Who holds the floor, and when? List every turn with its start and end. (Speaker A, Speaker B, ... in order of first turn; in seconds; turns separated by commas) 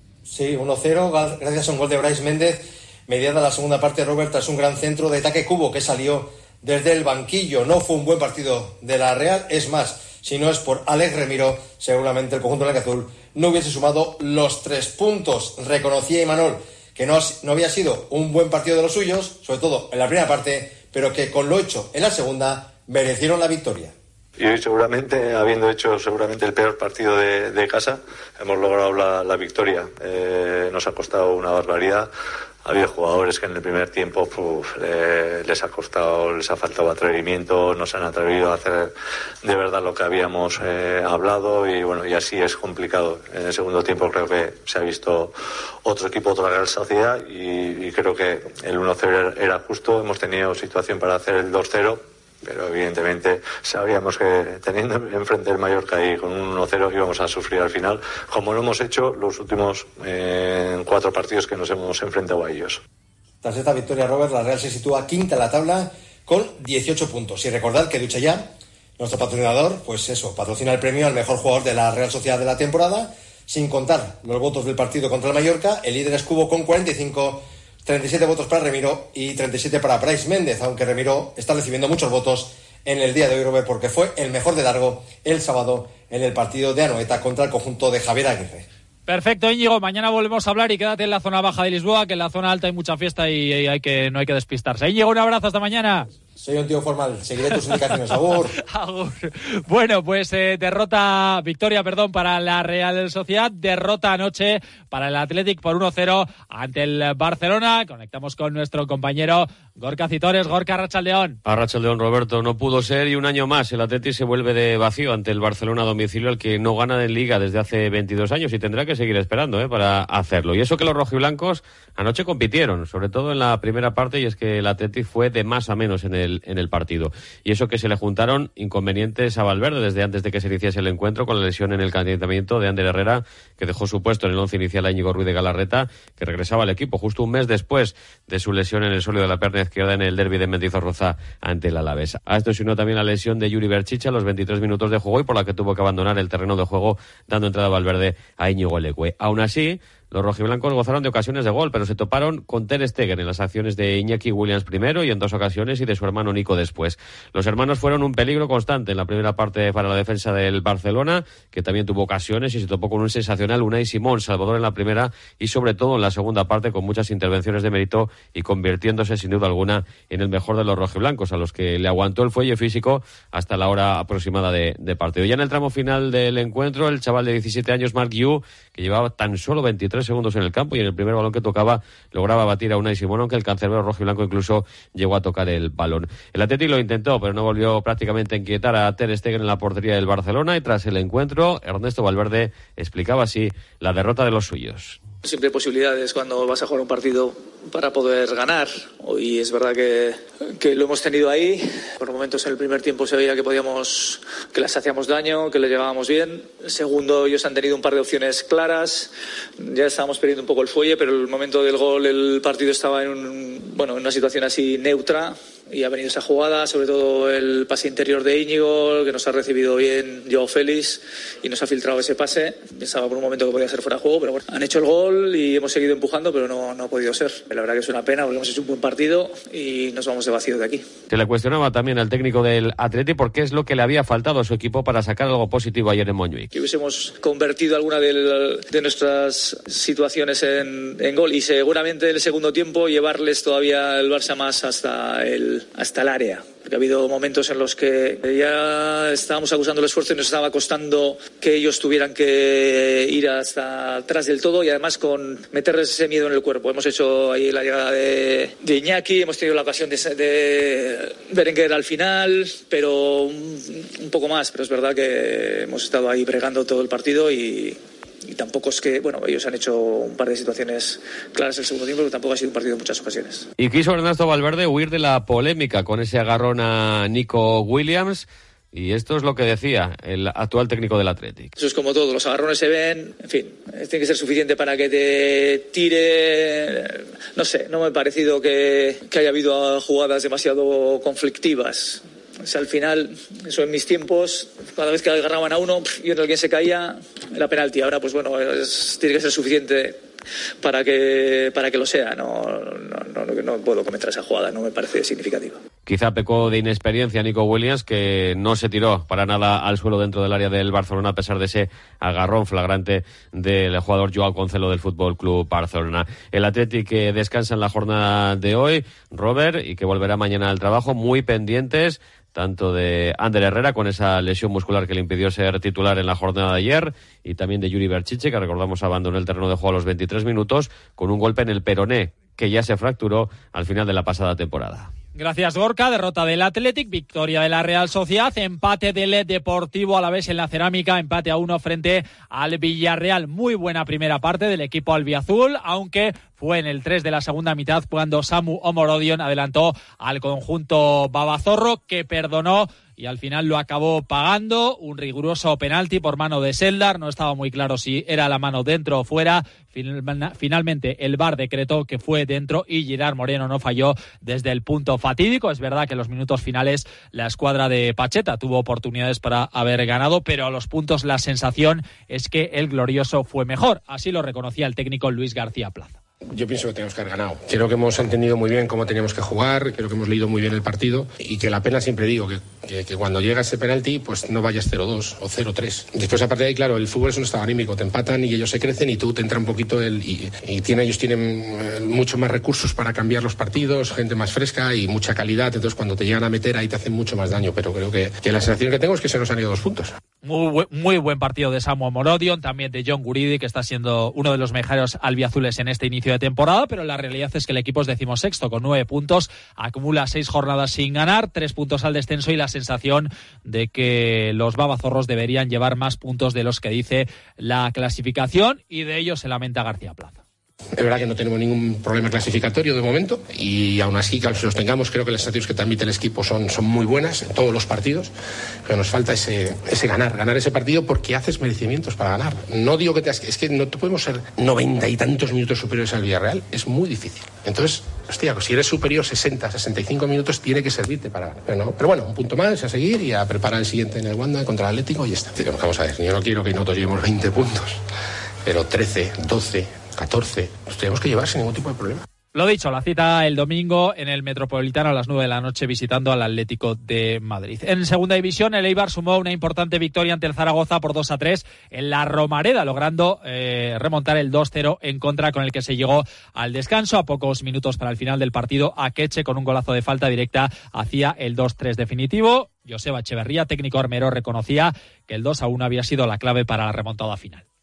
Speaker A: 0.2-23.9, Speaker B: 24.4-32.1, Speaker B: 32.6-38.9, Speaker B: 39.4-45.3, Speaker B: 45.8-62.8, Speaker A: 63.4-88.7, Speaker C: 89.1-96.1, Speaker A: 96.4-98.5, Speaker C: 98.6-111.4, Speaker D: 111.4-195.0, Speaker E: 195.2-230.8, Speaker D: 231.1-236.5, Speaker E: 236.5-273.5, Speaker D: 273.6-281.5, Speaker E: 281.6-300.0, Speaker E: 300.6-305.6, Speaker D: 305.9-334.9, Speaker C: 335.1-376.0, Speaker F: 376.3-399.9, Speaker C: 400.2-420.2, Speaker F: 420.7-428.1, Speaker F: 428.6-447.8, Speaker F: 448.4-452.0, Speaker C: 452.3-477.4